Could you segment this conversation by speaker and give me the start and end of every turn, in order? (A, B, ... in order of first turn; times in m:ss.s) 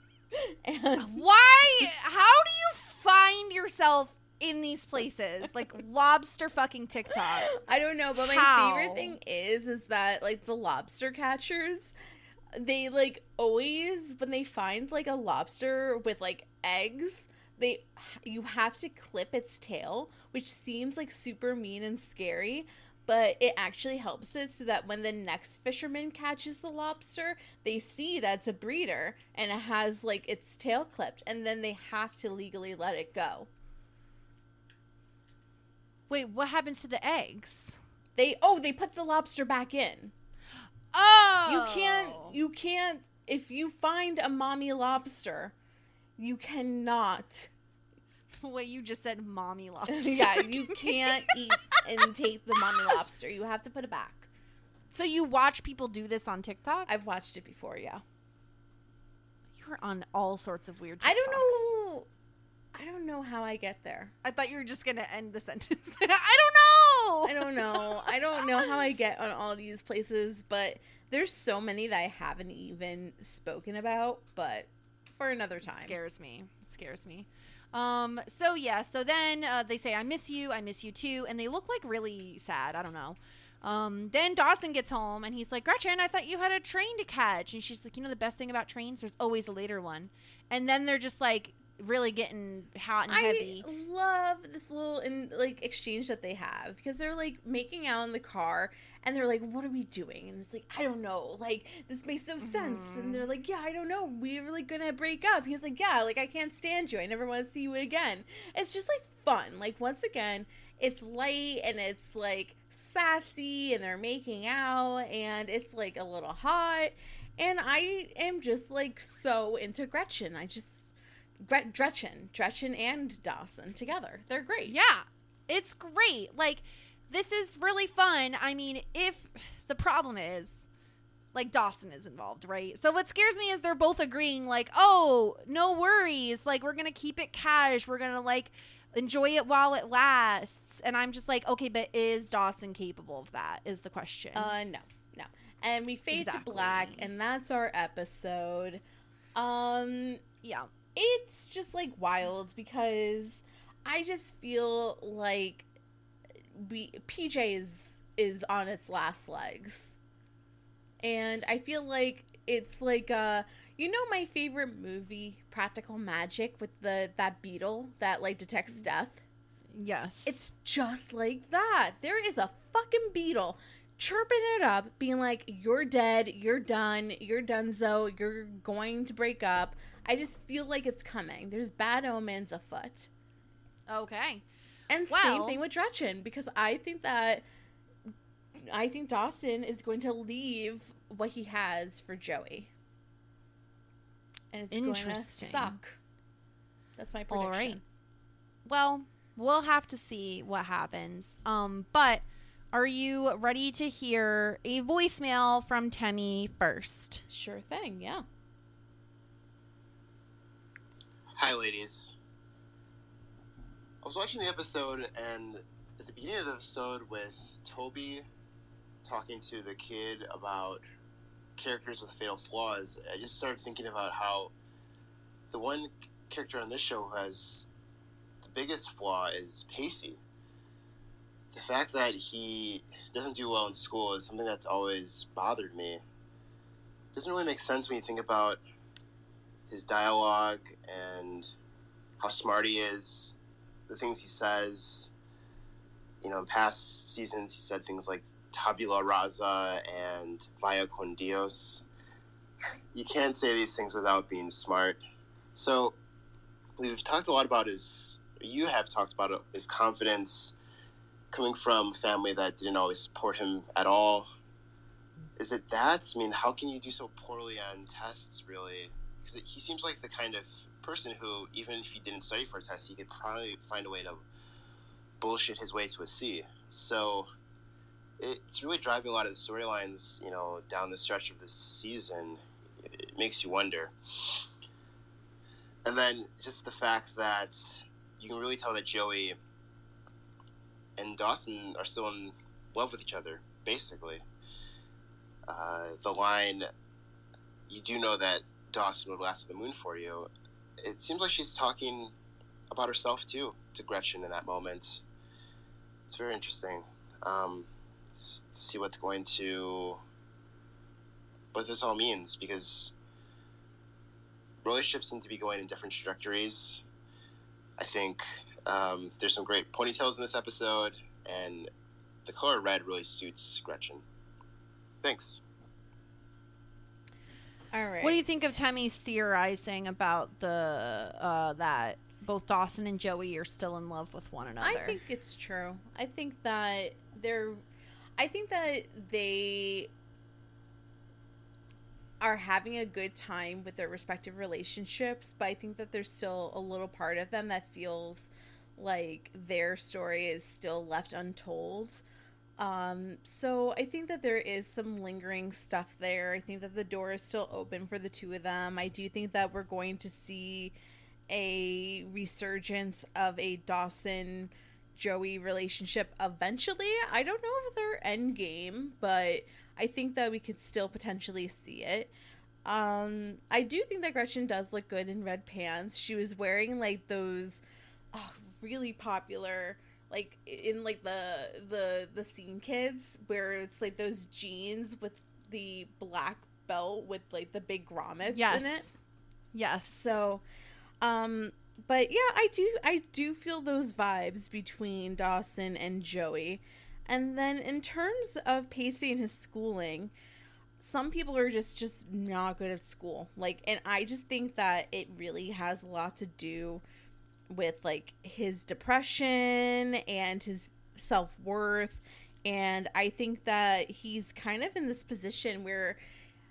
0:00.3-0:01.2 A
0:01.0-0:07.5 B
0:07.1-0:11.9 A
0:08.3-0:09.1 B
0:12.5-0:33.5 A
0:36.1-0:37.8 B
0:38.2-0:40.1 A
0:40.9-0:42.4 B
0:41.4-0:45.5 A
0:46.2-0:47.5 A
0:48.4-0:51.8 B
0:49.9-0:54.3 A
0:54.9-0:56.9 B
0:56.9-0:58.0 A
0:59.6-1:01.6 B
1:01.0-1:02.1 A
1:02.7-1:04.1 A
1:04.2-1:08.1 B
1:07.2-1:16.0 A
1:15.6-1:33.7 B
1:33.1-2:04.8 A
1:42.4-1:43.2 B
2:04.7-2:10.7 B
2:11.3-2:24.5 B
2:24.3-2:28.8 A
2:26.1-2:27.1 B
2:29.4-2:30.2 A
2:30.4-2:30.7 B
2:31.0-2:35.7 A
2:36.5-2:40.0 A
2:41.0-2:49.2 A
2:49.7-2:50.4 B
2:50.2-3:03.1 A
3:03.9-3:04.4 B
3:04.9-3:07.4 A
3:05.1-3:05.6 B
3:08.6-3:12.7 A
3:14.5-3:16.0 A
3:14.7-3:15.8 B
3:17.0-3:17.8 A
3:17.3-3:17.8 B
3:18.7-3:27.2 B
3:27.3-3:28.2 A
3:31.4-3:32.1 C
3:34.0-3:38.2 C
3:39.0-3:40.8 C
3:41.6-3:44.5 C
3:45.5-3:47.7 C
3:48.4-3:50.2 C
3:51.5-3:56.0 C
3:57.1-3:58.6 C
3:59.7-4:01.5 C
4:02.2-4:03.4 C
4:03.9-4:05.1 C
4:06.2-4:11.8 C
4:12.9-4:15.0 C
4:15.6-4:16.0 C
4:16.8-4:20.5 C
4:21.3-4:24.3 C
4:25.4-4:34.2 C
4:35.2-4:37.3 C
4:38.2-4:43.9 C
4:45.8-4:49.4 C
4:51.0-4:54.2 C
4:55.5-4:56.7 C
4:57.7-5:00.3 C
5:00.8-5:02.1 C
5:02.7-5:05.0 C
5:06.1-5:10.0 C
5:11.5-5:12.9 C
5:14.6-5:16.8 C
5:17.8-5:21.7 C
5:22.3-5:24.0 C
5:25.0-5:25.4 C
5:27.7-5:28.6 A
5:28.0-5:35.0 B
5:34.6-5:37.6 A
5:38.2-5:39.9 A
5:42.2-5:52.0 A
5:52.6-6:00.8 A
6:01.3-6:12.1 A
6:12.6-6:28.9 A
6:28.3-6:28.9 B
6:29.5-6:30.2 B
6:29.9-6:30.4 A
6:31.0-6:40.1 A
6:40.8-6:46.8 A
6:47.5-6:56.0 A